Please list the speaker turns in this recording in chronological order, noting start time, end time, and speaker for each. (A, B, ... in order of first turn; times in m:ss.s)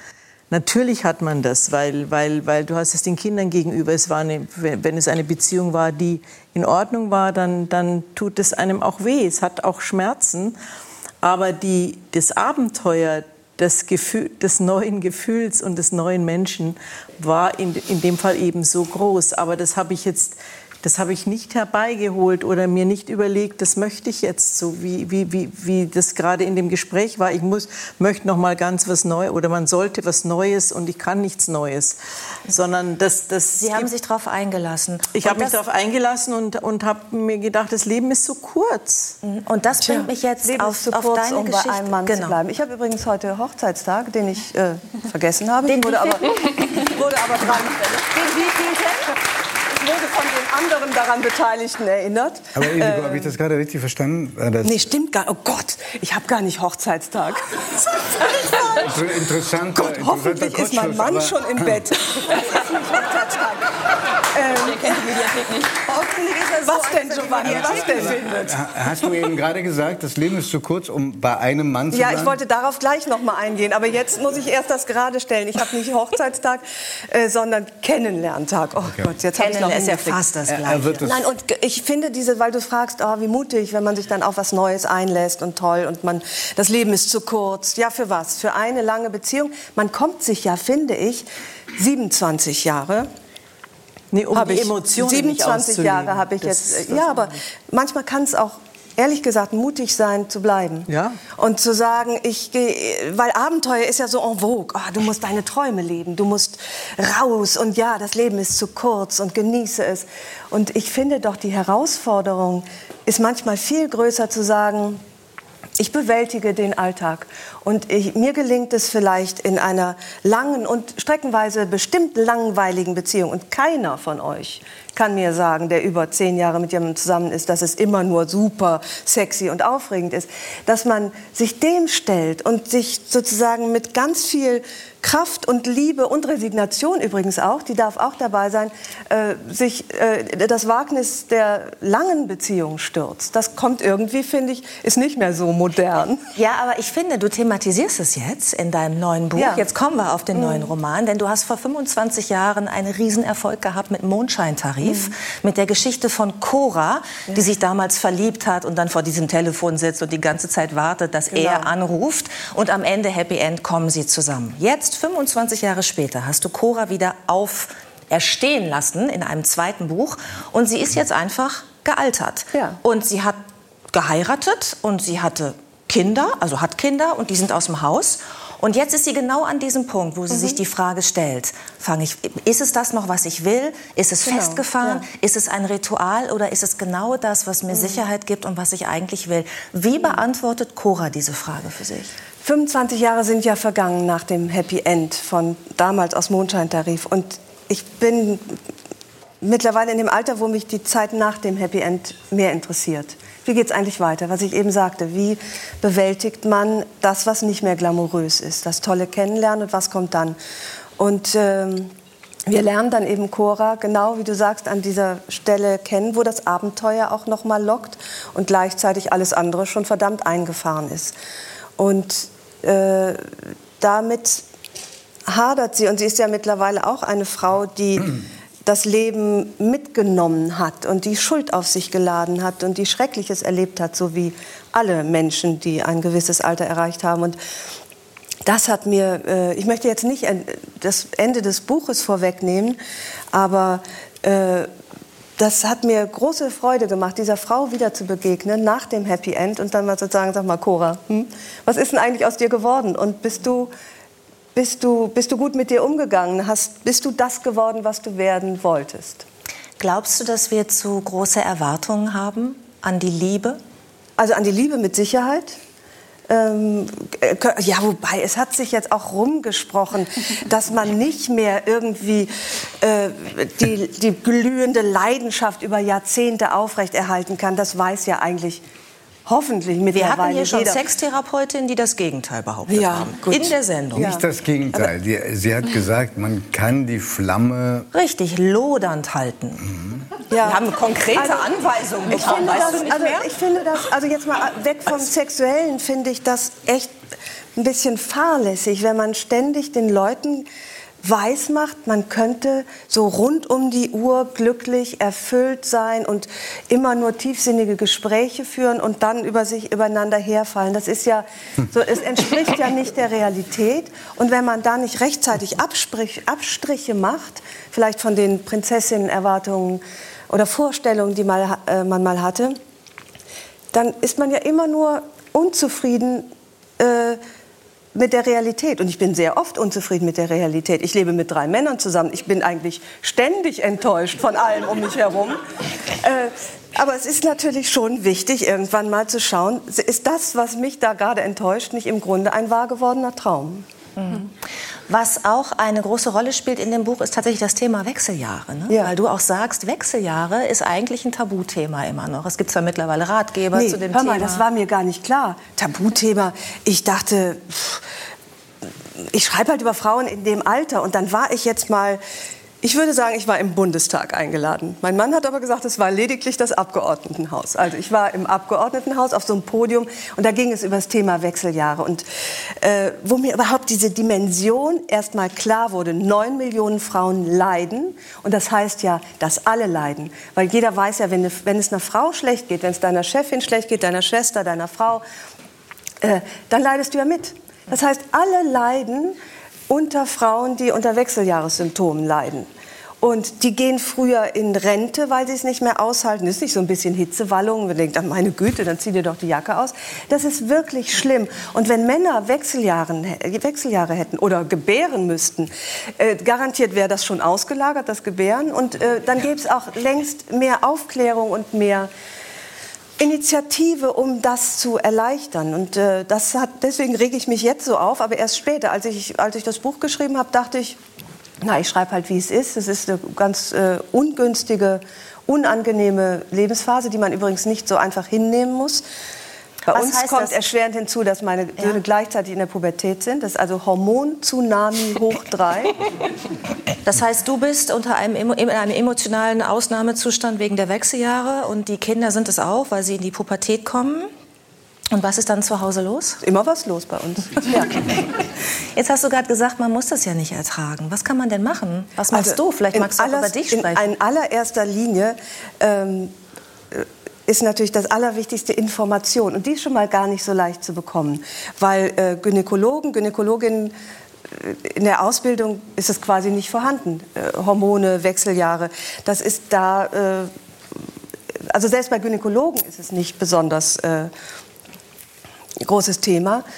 0:00.5-0:10.6 A
0:11.2-0:33.9 A
0:33.6-0:35.6 B
0:35.1-0:39.2 A
0:39.2-0:42.4 B
0:39.8-0:53.4 C
0:45.7-0:46.6 B
0:52.6-0:54.9 D
0:54.6-0:58.9 C
0:58.8-1:01.8 D
0:59.8-1:03.7 C
1:04.3-1:05.3 C
1:04.6-1:05.8 E
1:05.8-1:08.6 C
1:06.7-1:08.0 E
1:07.4-1:12.4 D
1:11.9-1:20.2 C
1:19.3-1:21.0 B
1:20.6-1:21.3 D
1:21.0-1:33.1 C
1:34.1-1:37.3 A
1:34.3-1:55.0 C
1:40.9-1:41.2 A
1:55.8-2:26.2 C
2:26.4-2:53.4 B
2:29.4-2:29.7 C
2:30.3-2:30.7 C
2:34.8-2:35.1 C
2:41.3-2:41.7 C
2:52.5-2:52.8 C
2:53.9-3:12.2 B
3:00.3-3:00.6 C
3:04.2-3:05.1 C
3:07.7-3:08.0 C
3:12.4-3:18.6 C
3:19.4-3:30.4 C
3:31.0-3:31.9 C
3:32.5-3:41.2 C
3:41.8-3:44.4 C
3:45.3-3:57.4 C
3:58.4-4:02.8 C
4:03.3-4:04.7 C
4:05.4-4:13.7 C
4:14.6-4:19.2 C
4:19.8-4:23.6 B
4:24.2-4:25.6 C
4:26.3-4:38.6 C
4:39.3-4:40.8 C
4:39.9-4:44.1 B
4:42.7-4:44.9 C
4:44.0-4:47.9 D
4:47.9-4:49.7 B
4:50.3-4:57.0 C
4:50.4-4:53.3 B
4:57.6-5:00.5 C
5:01.0-5:22.6 C
5:23.7-5:27.2 C
5:27.9-5:35.4 C
5:36.0-5:43.7 C
5:44.0-5:44.3 B
5:44.9-5:54.4 B
5:48.7-5:48.9 C
5:53.5-5:57.8 C
5:59.1-6:02.0 C
6:02.6-6:12.1 C
6:12.6-6:25.0 C
6:26.0-6:29.2 C
6:29.7-6:32.5 C
6:33.0-6:51.9 C
6:53.0-7:00.8 C
7:01.4-7:08.8 C
7:09.6-7:15.8 C
7:09.7-7:10.4 B
7:16.8-7:24.1 B
7:24.9-7:26.2 B
7:26.2-7:27.9 C
7:27.5-7:28.0 B
7:28.7-7:33.9 B
7:32.1-7:36.1 C
7:36.7-7:43.8 C
7:44.3-7:50.3 C
7:51.5-7:54.1 C
7:55.6-7:56.4 C